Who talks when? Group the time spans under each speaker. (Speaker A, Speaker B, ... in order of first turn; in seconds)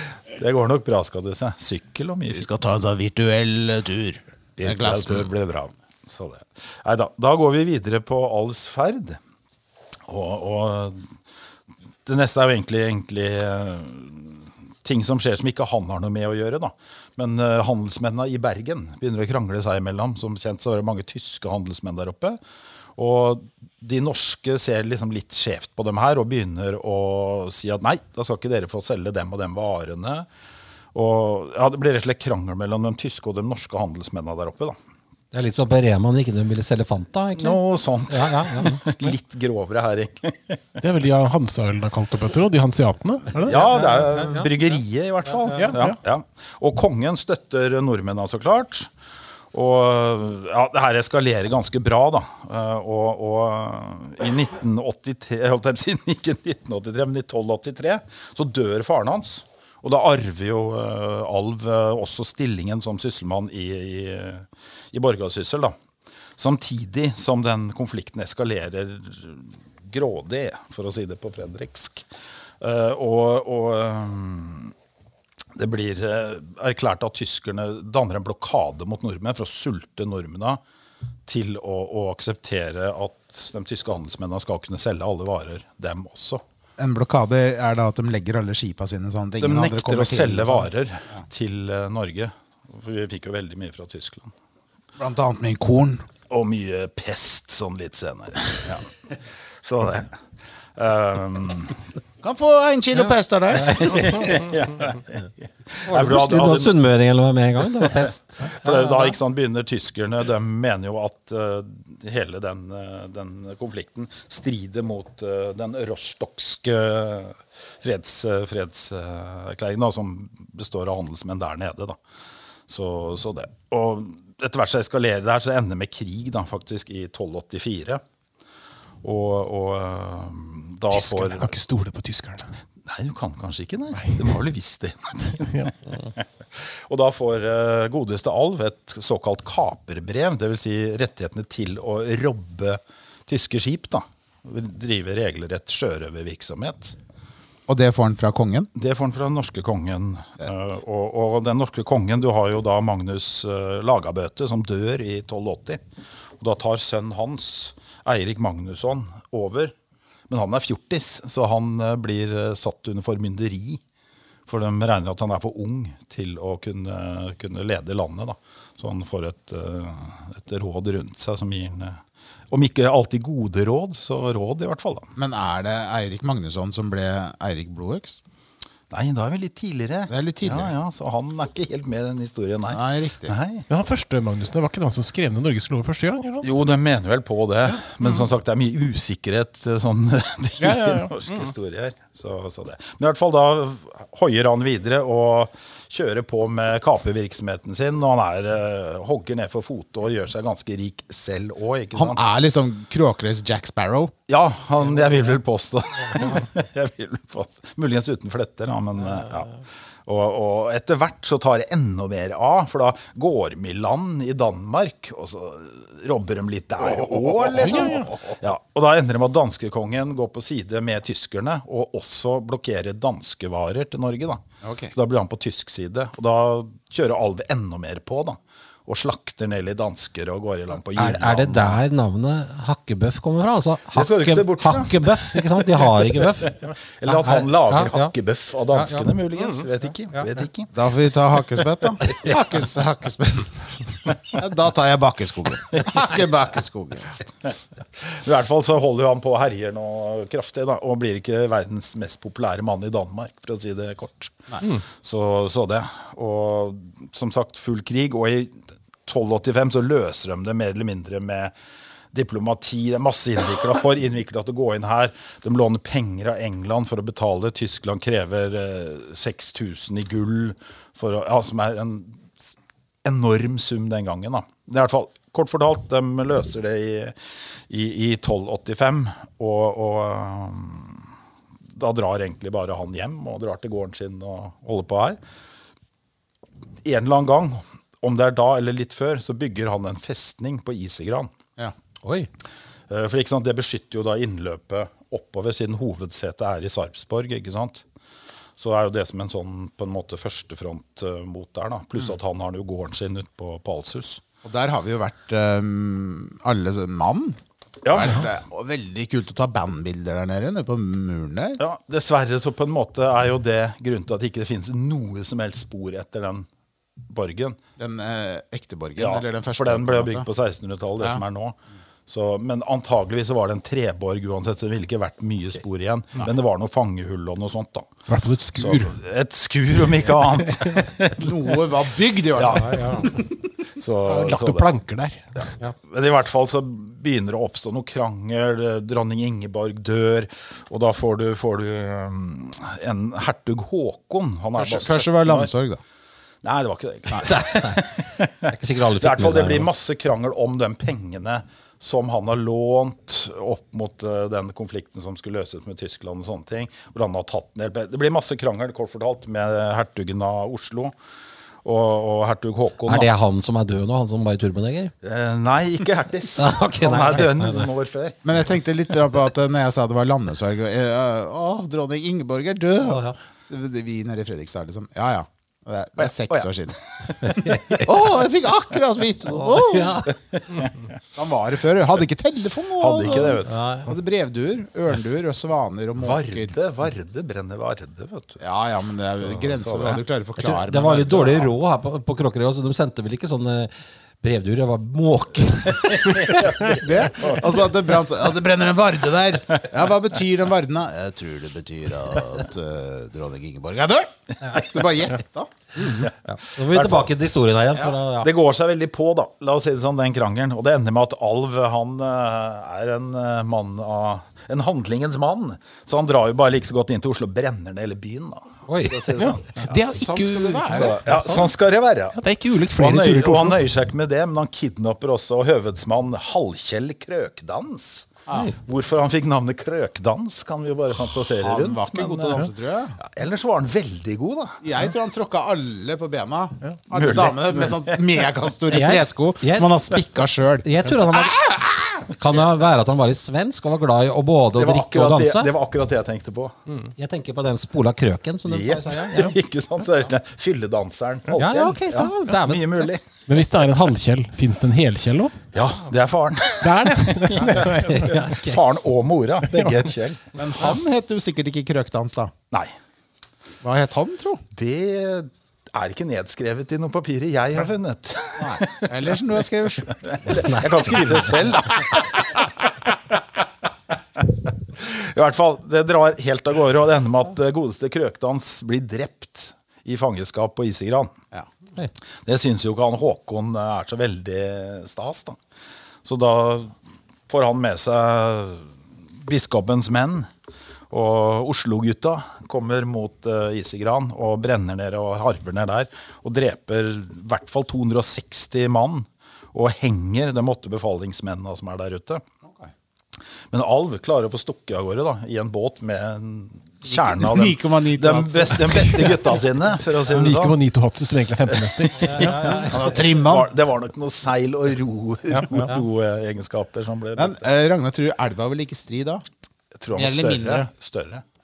Speaker A: 0.4-2.5, 4.6-9.2, 10.1-11.1, 12.1-22.4, 23.0-30.3, 30.9-34.8, 37.4-40.8, 43.5-48.9, 49.5-65.8, 66.4-72.0, 72.6-74.7, 75.6-80.6, 81.3-86.4, 89.4-94.3, 96.3-100.1, 100.8-101.8, 103.8-106.8, 108.5-122.0, 122.7-128.0, 129.0-131.5, 132.9-147.0, 148.8-155.8, 156.4-159.7, 160.3-163.8, 164.5-172.0, 172.5-175.1, 178.9-183.7, 186.4-202.3, 204.3-209.5, 210.1-224.4, 224.9-231.8, 233.9-240.7, 248.0-261.5, 262.1-272.3, 273.1-277.2, 277.7-281.1, 281.7-285.2, 286.8-291.3, 292.9-297.8, 298.6-304.2, 307.8-308.3, 311.6-316.5, 317.1-317.6, 319.0-321.6, 322.1-327.9, 328.6-331.6, 332.4-332.9, 333.8-334.7, 335.4-345.5, 346.4-360.9, 361.6-363.1, 365.0-368.4, 376.1-376.5, 377.0-377.9, 380.3-380.7, 382.8-383.6, 386.0-388.4, 389.2-390.0, 395.8-397.4, 406.7-407.1, 408.2-419.5, 420.7-422.2, 422.7-432.4, 433.0-434.6, 436.9-438.0, 444.6-446.6, 448.5-453.0, 455.5-460.2, 464.5-473.4, 474.2-481.1, 482.3-485.4, 486.0-486.8, 487.3-490.3, 490.9-502.2, 503.5-510.6, 511.5-517.5, 519.8-521.2
Speaker B: 2.3-5.3, 86.8-90.7, 95.0-96.0, 102.2-104.2, 147.7-148.7, 175.2-178.2, 180.1-180.7, 182.7-183.3, 201.9-204.1, 216.8-218.4, 224.6-224.9, 240.7-247.1, 304.4-311.6, 317.8-320.3, 331.1-333.4, 344.6-345.8, 368.2-376.8, 377.8-380.1, 381.1-386.5, 388.4-391.5, 396.7-405.5, 419.6-421.0, 431.4-433.0, 434.6-441.6, 460.4-462.3, 463.6-464.4, 468.4-470.9, 502.4-502.7, 506.9-509.4, 512.2-513.5, 515.5-515.8, 517.2-519.2, 519.9-520.7
Speaker C: 35.3-39.1, 43.5-44.5, 103.0-104.3, 105.9-109.1, 230.9-238.1, 238.7-239.1, 292.0-292.3, 332.6-333.1, 347.2-347.9, 348.5-349.7, 362.9-364.9, 366.4-367.7, 372.9-373.1, 379.4-380.1, 383.5-383.9, 390.4-396.4, 405.9-408.3, 418.7-419.1, 428.3-428.6, 438.7-439.7, 440.6-445.5, 447.0-449.3, 451.4-452.9, 457.9-458.6, 512.1-512.7
Speaker D: 40.8-43.7, 45.5-46.0, 130.9-132.5, 134.0-134.2, 135.5-135.7, 183.7-186.5, 190.6-191.5, 217.6-218.1, 239.4-239.6, 328.1-328.9, 334.1-335.2, 419.2-421.5, 422.1-423.6, 453.3-455.4, 456.6-458.2, 459.5-459.9, 510.1-512.3